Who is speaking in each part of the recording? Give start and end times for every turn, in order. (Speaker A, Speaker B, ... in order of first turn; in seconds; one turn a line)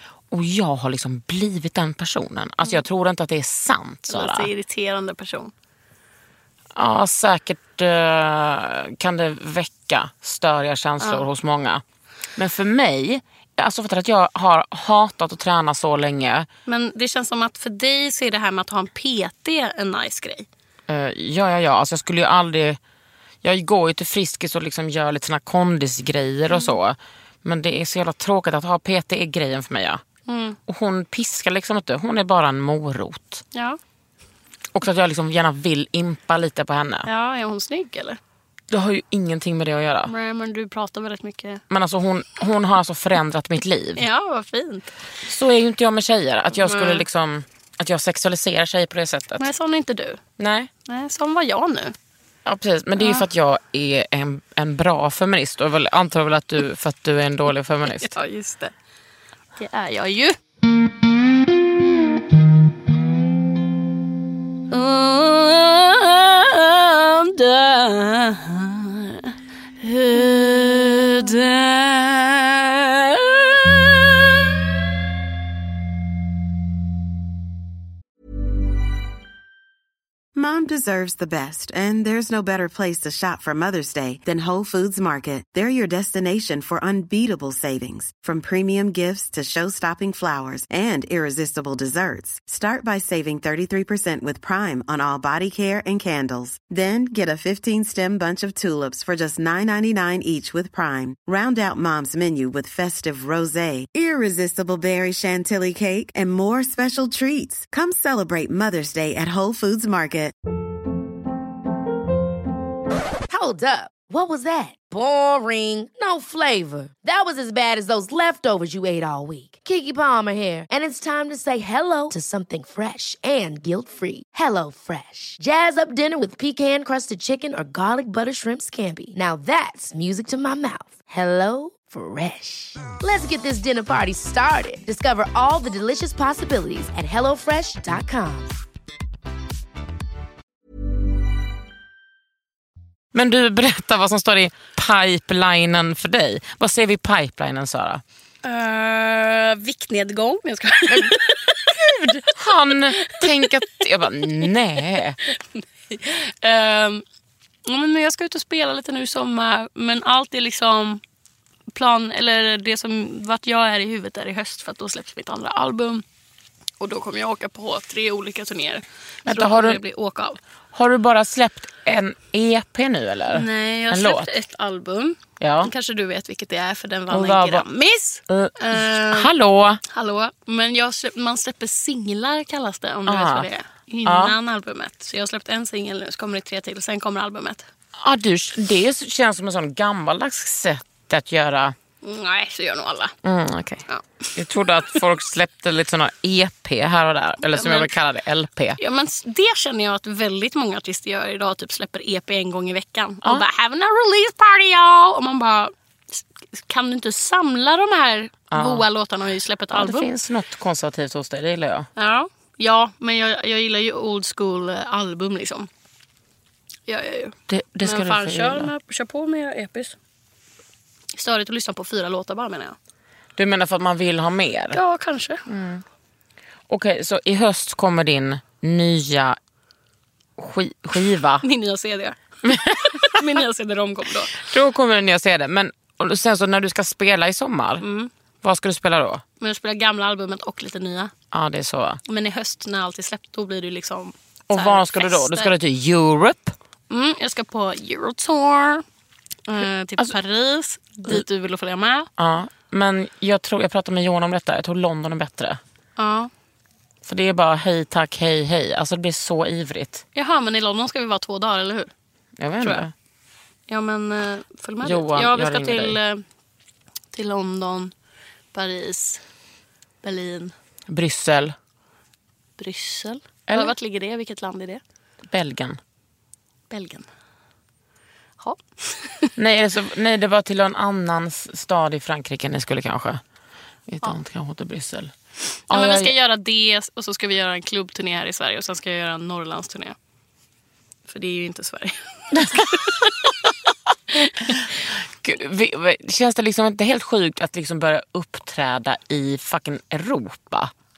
Speaker A: 0.3-4.5
Speaker B: 4.1-5.5
Speaker A: 6.8-11.8
Speaker B: 11.0-11.3
Speaker A: 12.3-16.5
Speaker B: 16.6-20.4
Speaker A: 20.9-22.8
Speaker A: 23.4-30.0
Speaker B: 26.5-26.8
Speaker B: 30.3-30.6
Speaker A: 30.7-33.4
Speaker B: 33.5-33.8
Speaker A: 34.7-37.1
Speaker B: 37.0-38.2
Speaker A: 38.7-40.1
Speaker B: 40.1-41.6
Speaker A: 41.7-44.0
Speaker B: 44.0-44.9
Speaker A: 45.2-49.5
Speaker B: 46.5-47.0
Speaker B: 49.4-50.2
Speaker A: 50.4-50.7
Speaker B: 50.9-51.9
Speaker A: 52.4-58.1
Speaker B: 53.0-53.2
Speaker B: 57.9-58.7
Speaker B: 59.6-60.4
Speaker B: 64.7-74.2
Speaker C: 80.3-110.3
Speaker D: 113.3-138.5
Speaker A: 143.1-148.0
Speaker B: 148.4-152.2
Speaker A: 150.9-155.2
Speaker B: 153.0-153.5
Speaker B: 155.9-157.0
Speaker B: 157.7-161.0
Speaker B: 161.7-166.0
Speaker B: 166.8-170.4
Speaker A: 169.2-169.8
Speaker A: 170.7-174.3
Speaker B: 173.3-179.3
Speaker A: 175.4-175.7
Speaker A: 177.1-177.6
Speaker A: 178.3-179.8
Speaker B: 179.9-187.6
Speaker A: 183.1-183.5
Speaker A: 184.1-184.3
Speaker A: 188.0-191.7
Speaker B: 192.0-193.1
Speaker A: 193.2-193.8
Speaker B: 193.9-194.3
Speaker A: 194.3-198.8
Speaker B: 197.5-197.9
Speaker B: 198.8-210.1
Speaker A: 208.5-208.8
Speaker A: 209.7-211.9
Speaker B: 212.0-215.7
Speaker B: 216.9-219.9
Speaker A: 217.5-218.7
Speaker B: 221.1-222.8
Speaker A: 223.4-224.8
Speaker B: 224.7-225.4
Speaker A: 225.5-225.8
Speaker A: 226.7-229.4
Speaker A: 230.4-231.4
Speaker B: 231.4-234.5
Speaker A: 232.4-233.2
Speaker A: 234.4-237.8
Speaker B: 237.8-238.1
Speaker A: 238.4-239.2
Speaker B: 239.4-241.1
Speaker A: 241.3-242.0
Speaker B: 242.1-245.5
Speaker A: 244.5-246.5
Speaker B: 246.9-248.8
Speaker B: 249.5-252.1
Speaker A: 252.2-255.6
Speaker B: 256.0-256.3
Speaker A: 257.0-260.0
Speaker B: 260.1-261.9
Speaker A: 262.4-262.9
Speaker B: 263.7-266.2
Speaker A: 264.8-266.0
Speaker B: 267.1-267.9
Speaker B: 268.5-269.2
Speaker B: 270.0-270.5
Speaker A: 270.9-271.5
Speaker B: 272.6-274.8
Speaker A: 275.3-275.8
Speaker B: 276.7-277.1
Speaker B: 278.4-279.3
Speaker A: 279.4-283.2
Speaker A: 283.9-285.1
Speaker A: 285.7-286.1
Speaker B: 285.7-289.9
Speaker B: 291.1-293.1
Speaker A: 292.3-292.6
Speaker B: 294.1-294.6
Speaker A: 295.2-300.7